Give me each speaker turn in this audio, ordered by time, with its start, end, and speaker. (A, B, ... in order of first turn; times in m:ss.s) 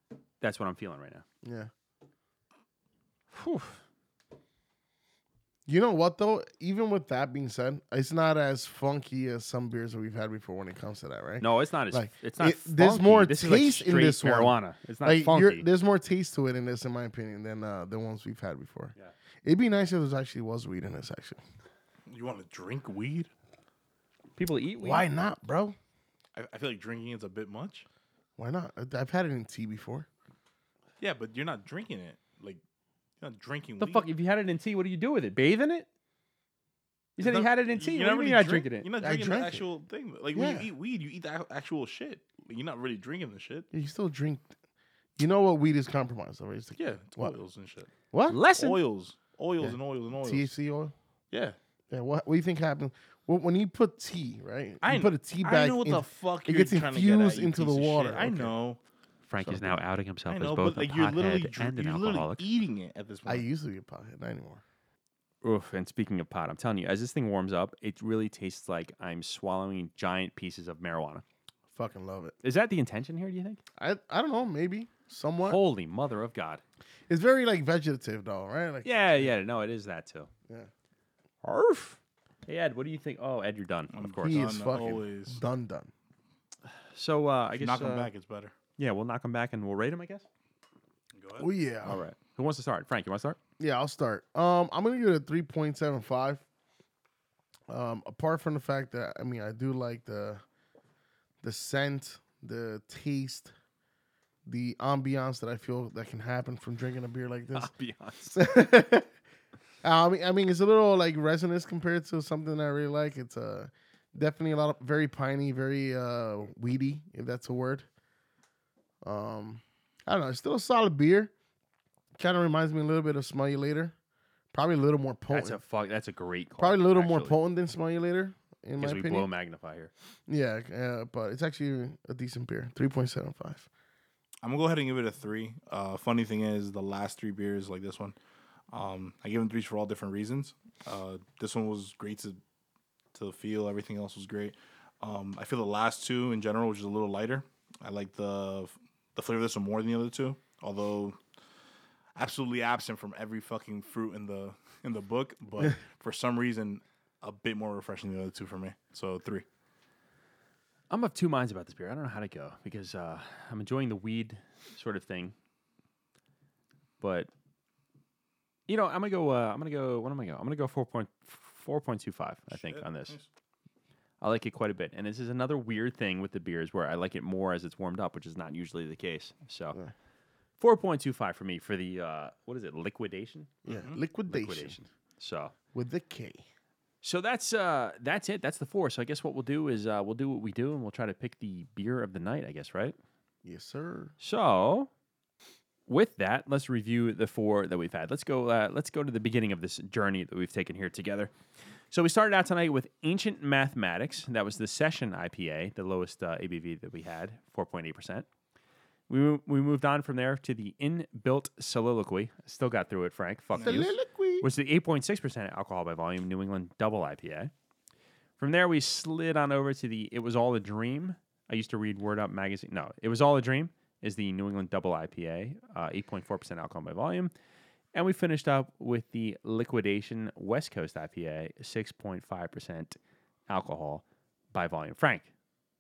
0:00.4-0:01.2 A
0:01.4-0:01.7 B
0:03.3-0:03.8 A
0:05.6-0:21.4 B
0:11.4-0:15.6 A
0:22.1-0:23.3 C
0:24.4-0:25.0 A
0:24.8-0:25.8 B
0:26.4-0:27.8 C
0:28.4-0:30.1 B
0:31.0-0:32.6 C
0:33.2-0:34.0 C
0:33.8-0:35.9 A
0:37.2-0:38.9 A
0:37.2-0:43.7 C
0:39.0-0:39.6 B
0:40.3-0:40.7 B
0:43.7-0:44.5 B
0:45.2-0:47.3 B
0:46.8-0:47.9 C
0:48.1-0:48.4 B
0:48.3-0:48.8 A
0:48.6-0:50.5 C
0:49.6-0:50.9 B
0:51.3-0:51.6 C
0:51.9-0:58.5 B
0:54.8-0:58.8 C
0:59.2-1:02.4 A
0:59.4-1:03.4 C
1:03.2-1:04.6 B
1:05.4-1:11.2 A
1:11.7-1:12.3 B
1:12.4-1:13.6 A
1:13.8-1:15.6 B
1:15.4-1:16.6 A
1:17.1-1:19.3 B
1:18.8-1:20.3 A
1:21.4-1:24.5 A
1:23.9-1:25.4 C
1:24.2-1:25.9 B
1:26.9-1:28.1 A
1:27.6-1:28.5 C
1:28.8-1:30.2 A
1:31.1-1:31.5 C
1:31.4-1:32.0 B
1:31.8-1:33.4 A
1:33.6-1:36.4 B
1:37.7-1:40.4 B
1:41.4-1:43.5 B
1:44.4-1:47.7 B
1:47.5-1:48.4 A
1:48.4-1:49.1 B
1:49.8-1:57.8 B
1:59.0-2:01.3 B
2:02.2-2:03.9 B
2:04.5-2:05.6 B
2:05.3-2:07.4 A
2:06.6-2:09.3 B
2:08.8-2:09.9 A
2:10.3-2:13.7 B
2:14.4-2:18.2 C
2:18.7-2:22.4 C
2:23.1-2:31.2 C
2:32.2-2:39.4 C
2:40.9-2:45.3 A
2:47.0-2:47.3 A
2:48.7-2:53.2 A
2:52.5-2:53.3 C
2:54.2-2:59.8 A
3:00.6-3:03.5 A
3:03.6-3:04.8 B
3:03.6-3:04.0 C
3:04.3-3:05.5 A
3:05.7-3:06.4 B
3:07.0-3:13.0 A
3:13.4-3:14.1 B
3:14.2-3:14.9 A
3:15.9-3:21.3 A
3:21.9-3:28.2 A
3:29.1-3:37.5 A
3:33.5-3:33.8 C
3:33.6-3:34.5 B
3:38.4-3:47.3 A
3:47.9-3:55.3 A